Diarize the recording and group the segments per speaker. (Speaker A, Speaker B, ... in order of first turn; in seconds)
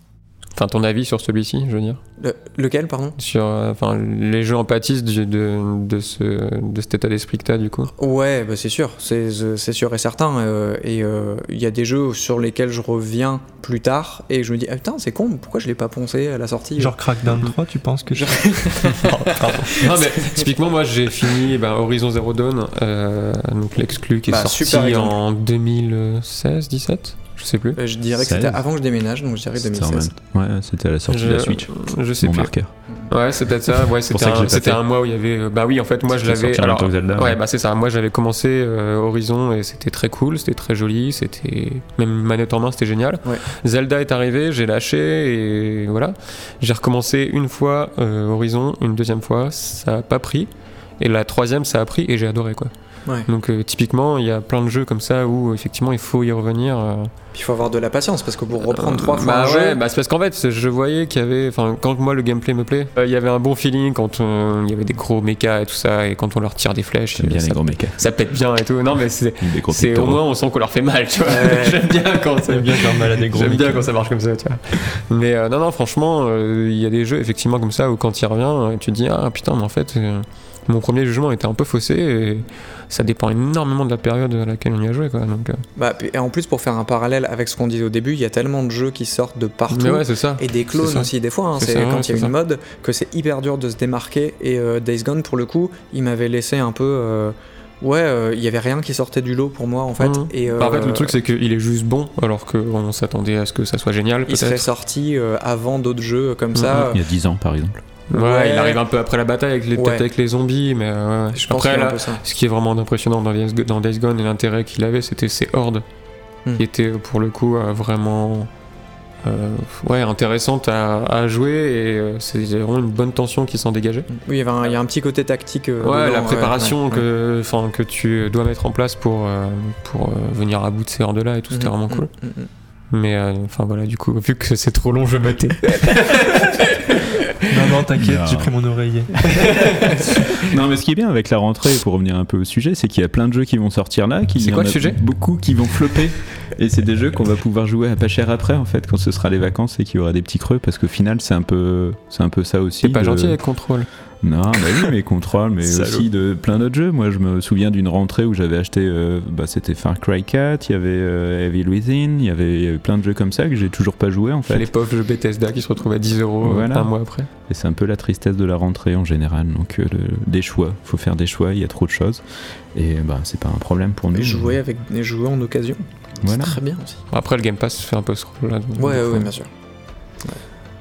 Speaker A: 0.6-2.0, 3.2-7.9, 19.1-27.8, 31.1-32.5, 33.1-52.7, 53.3-57.1, 58.6-85.6, 89.7-92.4, 100.0-104.7, 106.5-106.9, 108.1-115.8, 116.6-118.5, 119.2-124.1, 125.8-132.1, 132.9-137.3, 139.4-140.4, 144.4-145.0, 152.8-153.9, 164.5-167.3, 177.1-179.3
Speaker B: 2.2-3.2, 8.0-17.0, 18.1-20.4, 24.3-25.1, 27.8-30.1, 57.3-59.8, 71.3-71.8, 85.8-101.2, 104.3-107.0, 108.1-108.8, 109.8-110.0, 111.3-112.2, 124.2-127.0, 131.5-132.5, 174.1-177.0, 178.8-179.5
Speaker C: 16.8-19.7, 72.5-73.9, 137.5-139.2, 155.6-156.1
Speaker D: 28.2-28.6, 29.6-32.7, 34.1-34.8, 36.1-37.4, 67.2-68.0, 69.4-70.2, 106.7-107.8, 138.0-138.6, 139.1-153.4, 154.2-164.7, 166.4-166.9, 167.5-172.2, 172.7-174.6, 176.2-176.6